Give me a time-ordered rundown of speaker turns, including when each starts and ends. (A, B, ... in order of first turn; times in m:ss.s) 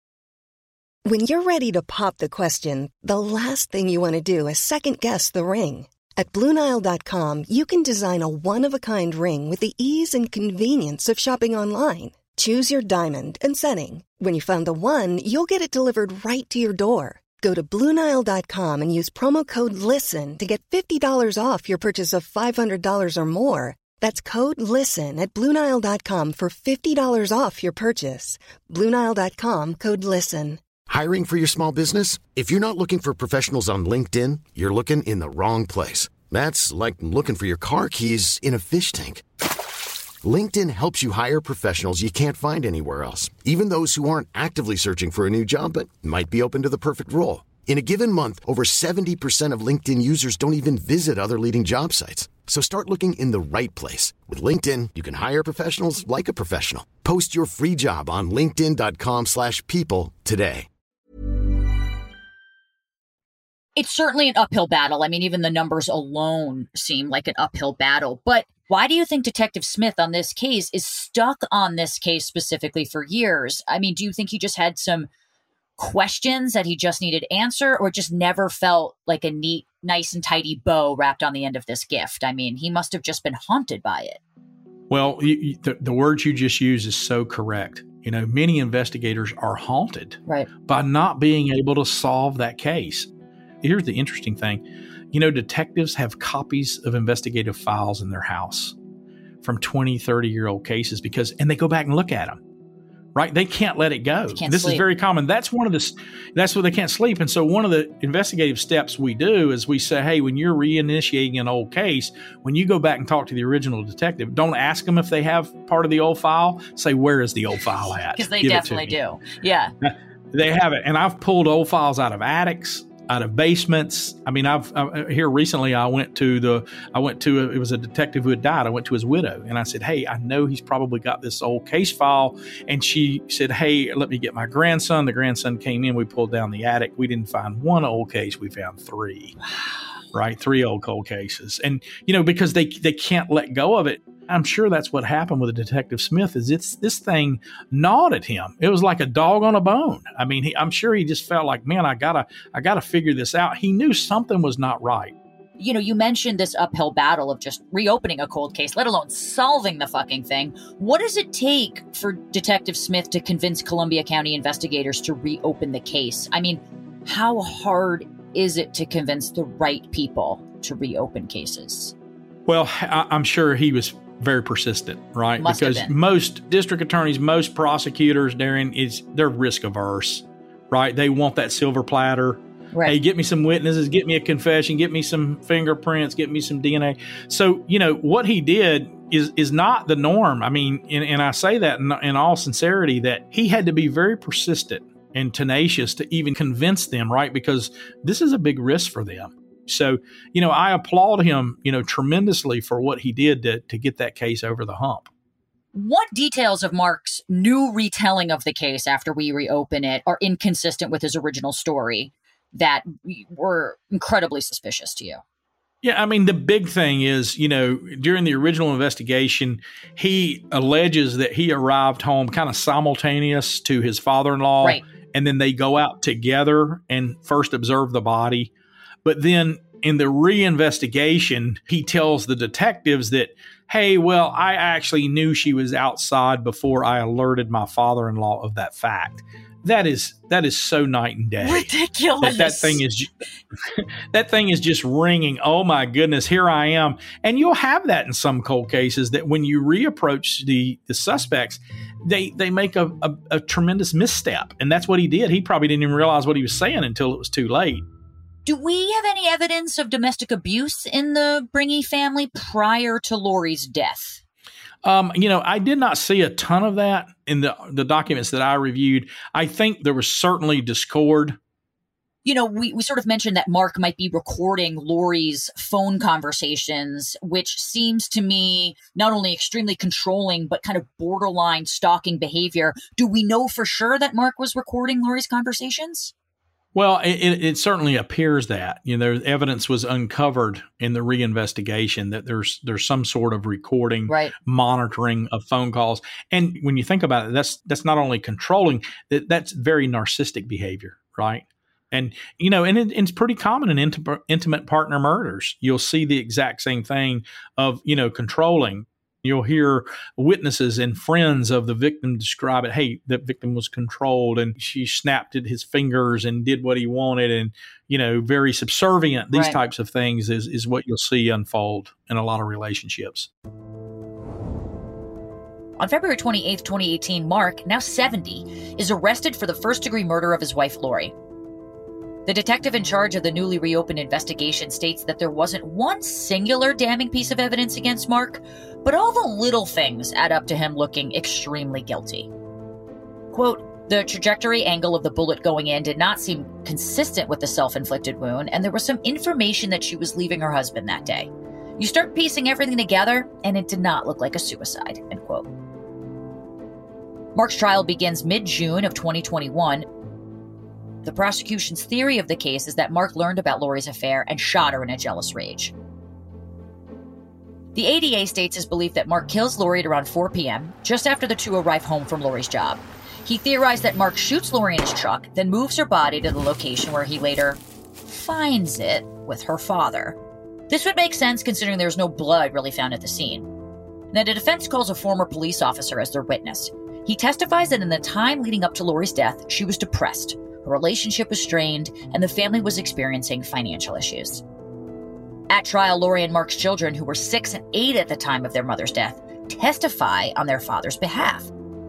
0:01.1-0:30.6 A
0:30.9-0:39.2 B
0:40.2-1:00.7 B
1:03.8-1:15.1 C
1:15.8-1:24.2 C
1:24.9-1:33.1 D
1:33.6-1:38.8 D
1:39.4-1:42.4 D
1:43.2-1:59.0 D
1:44.3-1:44.8 C
1:58.2-1:59.7 C
1:59.8-2:19.4 D
2:20.1-2:35.2 D
2:35.6-2:51.9 C
2:52.5-3:25.1 D
2:55.4-2:55.9 C
3:25.7-3:35.2 C
3:35.8-3:48.5 D
3:49.0-4:01.7 D
4:01.4-4:02.8 C
4:02.2-4:03.1 D
4:03.7-4:17.9 D
4:18.5-4:24.2 C
4:24.8-4:31.4 D
4:32.2-4:46.1 C
4:46.8-5:23.3 D
4:54.1-4:54.3 C
5:19.3-5:19.6 C
5:25.8-5:31.1 C
5:32.3-5:42.3 C
5:43.3-5:55.5 C
5:57.4-5:59.9 C
6:01.0-6:05.7 C
6:07.8-6:20.2 C
6:20.7-6:23.5 C
6:24.1-6:34.4 C
6:35.5-6:41.5 C